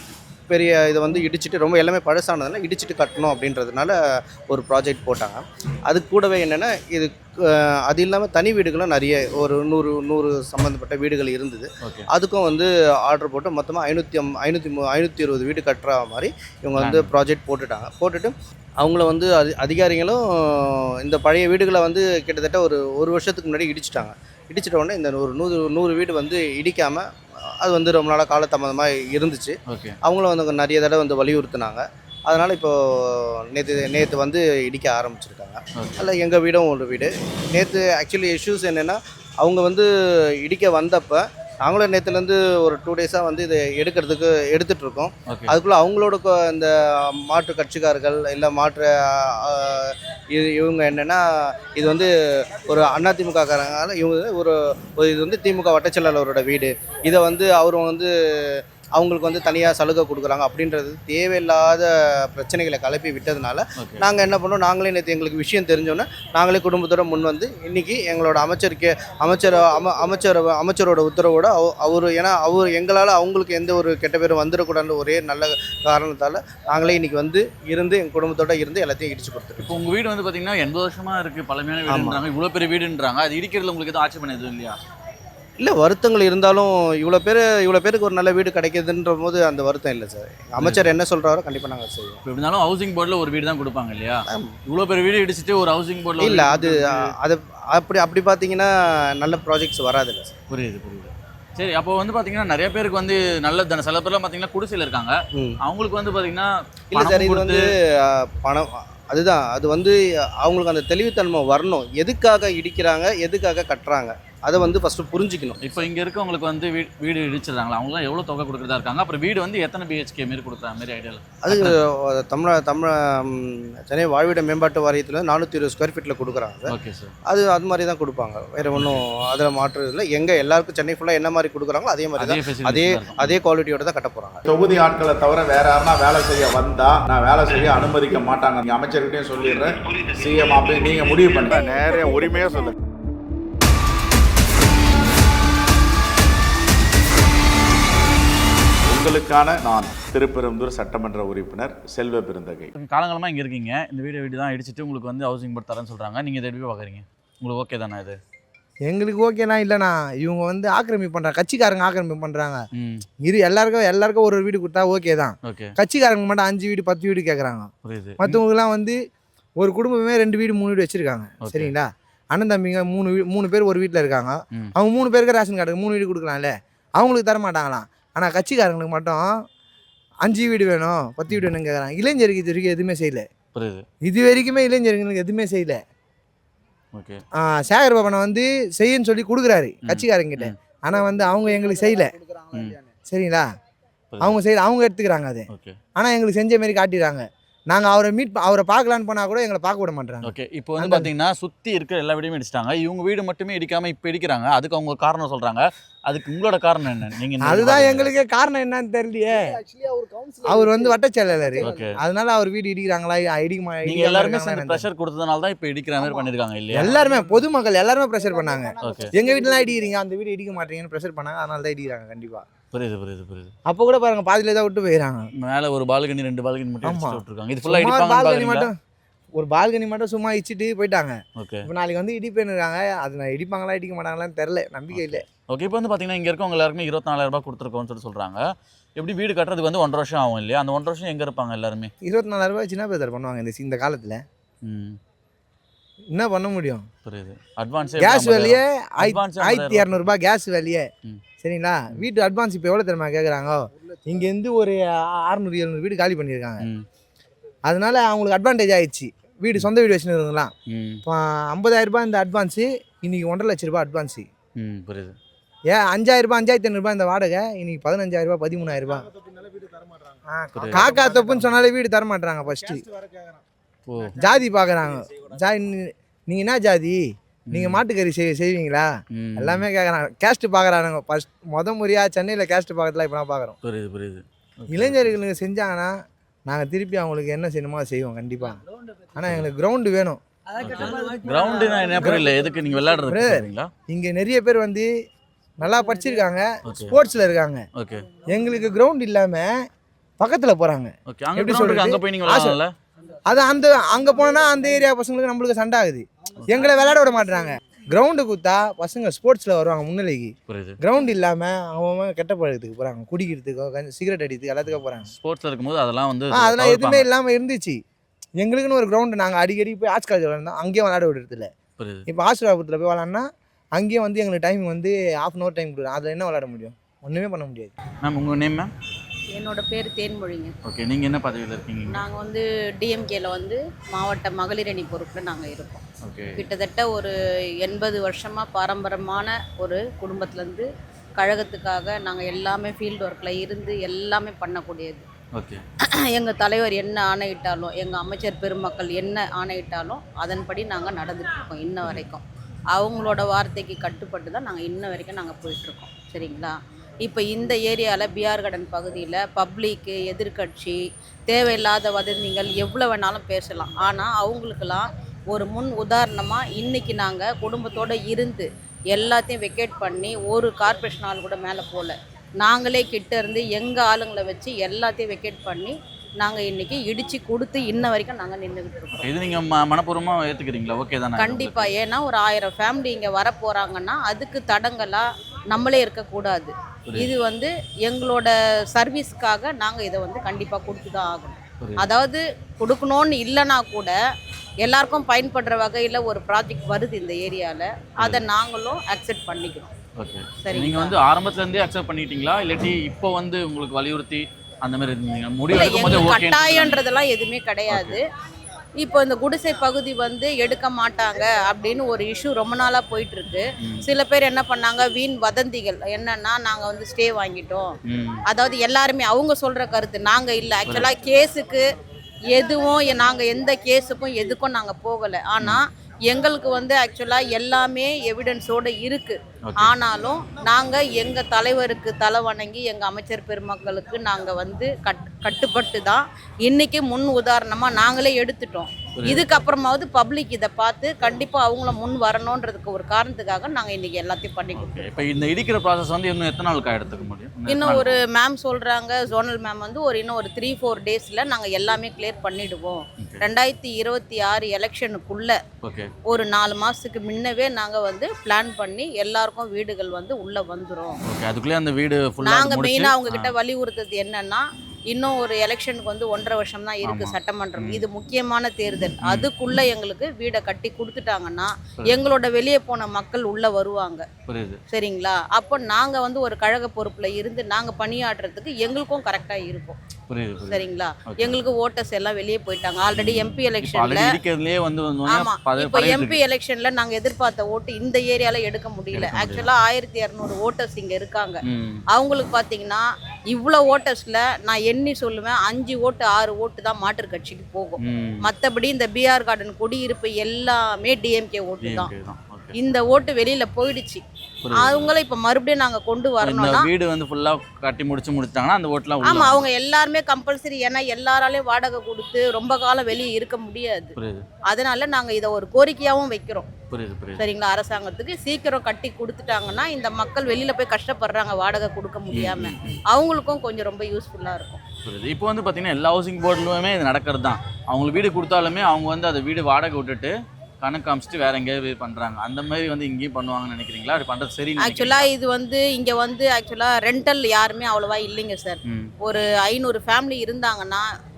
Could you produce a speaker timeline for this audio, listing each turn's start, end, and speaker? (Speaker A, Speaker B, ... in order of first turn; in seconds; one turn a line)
Speaker A: 0.5-4.0
Speaker A: 4.5-39.9
Speaker B: 11.8-12.1
Speaker B: 16.8-17.1
Speaker B: 29.7-30.0
Speaker B: 35.8-36.0
Speaker A: 40.4-79.7
Speaker B: 45.3-45.5
Speaker B: 63.8-64.0
Speaker B: 79.6-84.8
Speaker A: 81.9-82.2
Speaker A: 85.6-92.2
Speaker B: 90.6-90.9
Speaker B: 92.2-97.1
Speaker A: 94.3-94.5
Speaker A: 96.2-100.3
Speaker B: 100.5-107.7
Speaker A: 105.3-105.6
Speaker A: 106.9-115.6
Speaker B: 115.6-121.8
Speaker A: 121.4-126.7
Speaker B: 126.7-127.2
Speaker A: 127.3-134.4
Speaker B: 128.7-129.0
Speaker B: 132.2-133.3
Speaker C: 134.5-142.8
Speaker C: 148.9-152.7
Speaker B: 152.8-158.2
Speaker D: 158.9-162.7
Speaker B: 162.8-163.1
Speaker D: 163.2-167.7
Speaker B: 165.4-165.7
Speaker B: 167.8-168.4
Speaker D: 168.2-169.0
Speaker D: 169.6-179.3
Speaker B: 171.4-171.7
Speaker D: 180.2-183.3
Speaker B: 183.5-183.8
Speaker D: 184.0-185.8
Speaker B: 186.9-187.2
Speaker D: 187.4-192.1
Speaker B: 189.8-190.5
Speaker B: 192.5-192.8
Speaker D: 193.1-193.5
Speaker B: 194.1-194.4
Speaker D: 194.2-201.1
Speaker B: 195.5-195.8
Speaker B: 200.2-208.1
Speaker D: 207.4-209.5
Speaker D: 210.4-214.8
Speaker B: 211.6-212.0
Speaker B: 213.8-217.0
Speaker D: 216.7-222.5
Speaker B: 218.8-219.1
Speaker B: 222.7-223.5
Speaker D: 223.7-225.3
Speaker B: 225.4-228.7
Speaker D: 226.8-228.8
Speaker D: 229.4-235.2
Speaker B: 231.4-231.7
Speaker B: 234.9-238.4
Speaker B: 239.0-241.9
Speaker D: 242.0-244.2
Speaker B: 244.6-245.0
Speaker D: 246.1-246.9
Speaker B: 247.1-250.1
Speaker D: 248.0-250.9
Speaker D: 251.4-256.6
Speaker B: 256.6-256.9
Speaker D: 257.7-260.5
Speaker B: 260.7-261.0
Speaker D: 261.1-264.3
Speaker B: 264.6-265.2
Speaker D: 265.7-269.1
Speaker D: 270.3-272.9
Speaker B: 270.5-270.9
Speaker B: 273.9-274.2
Speaker D: 274.2-283.6
Speaker B: 277.5-277.8
Speaker B: 279.1-279.6
Speaker B: 283.6-285.1
Speaker D: 284.7-288.6
Speaker D: 289.1-290.2
Speaker B: 290.6-293.7
Speaker D: 293.1-294.9
Speaker D: 295.6-297.7
Speaker B: 296.7-297.0
Speaker B: 297.8-298.1
Speaker D: 298.3-299.7
Speaker D: 300.2-302.6
Speaker B: 301.1-302.7
Speaker D: 303.3-315.1
Speaker B: 310.5-310.8
Speaker B: 314.7-317.1
Speaker D: 316.3-317.8
Speaker D: 318.4-321.5
Speaker B: 321.8-322.1
Speaker D: 322.1-327.7
Speaker B: 328.0-328.7
Speaker E: 329.3-330.6
Speaker B: 330.6-332.0
Speaker E: 331.9-335.8
Speaker B: 336.0-336.5
Speaker E: 336.4-345.1
Speaker B: 345.4-345.6
Speaker E: 346.0-352.2
Speaker E: 352.7-379.1
Speaker B: 379.0-381.7
Speaker E: 381.2-393.9
Speaker B: 391.6-391.9
Speaker E: 394.6-399.7
Speaker B: 400.0-406.8
Speaker E: 400.4-400.9
Speaker E: 405.5-408.0
Speaker B: 407.7-408.0
Speaker E: 408.8-417.7
Speaker B: 417.9-418.2
Speaker E: 418.3-421.6
Speaker E: 422.3-444.9
Speaker B: 429.4-429.7
Speaker B: 439.0-439.2
Speaker B: 444.6-448.0
Speaker E: 447.5-455.4
Speaker B: 453.0-453.3
Speaker B: 455.6-455.9
Speaker E: 456.1-461.0
Speaker B: 461.1-463.3
Speaker E: 462.2-474.1
Speaker B: 466.9-467.8
Speaker B: 469.0-469.3
Speaker B: 474.3-474.6
Speaker E: 474.7-479.8
Speaker B: 480.1-480.6
Speaker E: 480.5-484.2
Speaker B: 481.2-481.4
Speaker B: 483.0-486.2
Speaker E: 485.1-501.9
Speaker B: 488.9-489.5
Speaker B: 491.5-491.8
Speaker B: 497.8-498.3
Speaker B: 501.6-502.5
Speaker E: 502.5-506.7
Speaker B: 504.4-504.9
Speaker B: 506.2-509.5
Speaker E: 509.0-514.0
Speaker B: 514.0-514.2
Speaker E: 514.5-516.5
Speaker B: 516.7-517.2
Speaker E: 517.2-524.6
Speaker B: 522.1-522.8
Speaker B: 524.9-535.1
Speaker E: 534.6-540.9
Speaker B: 538.7-538.9